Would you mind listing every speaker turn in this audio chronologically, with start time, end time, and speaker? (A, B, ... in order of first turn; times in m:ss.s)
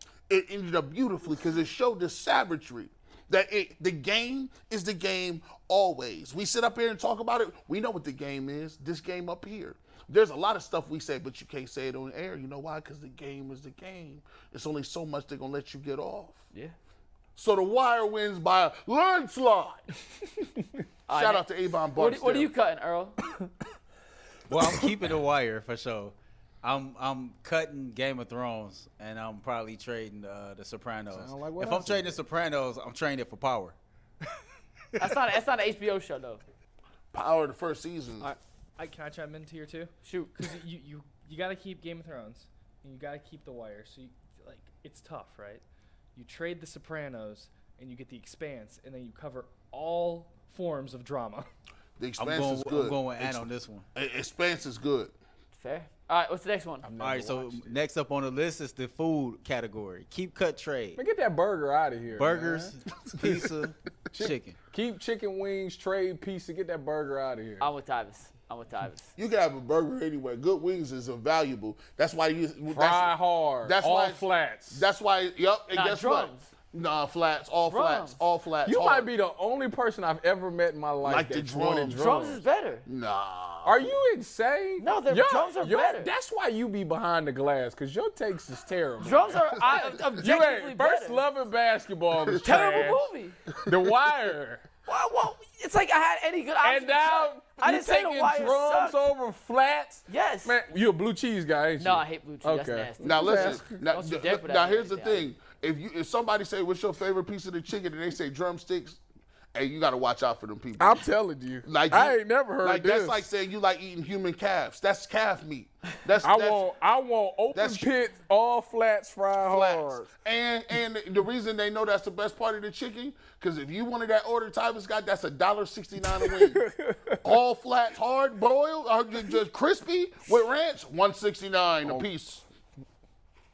0:00.3-0:16.4 A
0:17.4-0:19.9 A
0:21.1-0:23.2 B
0:21.1-0:22.5 A
0:24.5-0:34.4 C
0:31.1-0:32.2 D
0:35.0-0:36.4 B
0:37.1-0:38.3 A
0:38.2-0:45.6 E
0:40.0-0:40.5 B
0:46.1-0:51.4 E
0:52.0-0:55.1 A
0:52.2-0:53.8 C
0:55.5-0:56.9 B
0:56.8-0:57.7 D
0:57.0-1:01.0 C
1:01.0-1:02.7 D
1:02.1-1:04.6 C
1:04.2-1:07.7 D
1:07.6-1:09.1 B
1:09.2-1:19.1 A
1:12.7-1:14.9 D
1:15.7-1:16.5 B
1:17.7-1:18.2 B
1:18.6-1:22.4 D
1:21.0-1:22.1 A
1:22.0-1:22.8 B
1:22.8-1:23.9 A
1:23.6-1:33.0 D
1:24.8-1:26.1 B
1:29.0-1:31.2 B
1:32.4-1:33.4 B
1:33.6-1:34.6 D
1:34.8-1:39.0 B
1:36.6-1:43.8 D
1:40.1-1:40.6 B
1:41.8-1:45.3 B
1:43.0-1:49.0 A
1:49.5-1:51.1 A
1:50.8-1:53.3 D
1:51.6-1:56.6 A
1:56.2-2:00.1 D
1:57.5-1:57.9 A
1:59.4-2:06.7 A
2:06.2-2:07.4 D
2:07.2-2:12.4 A
2:11.8-2:12.1 D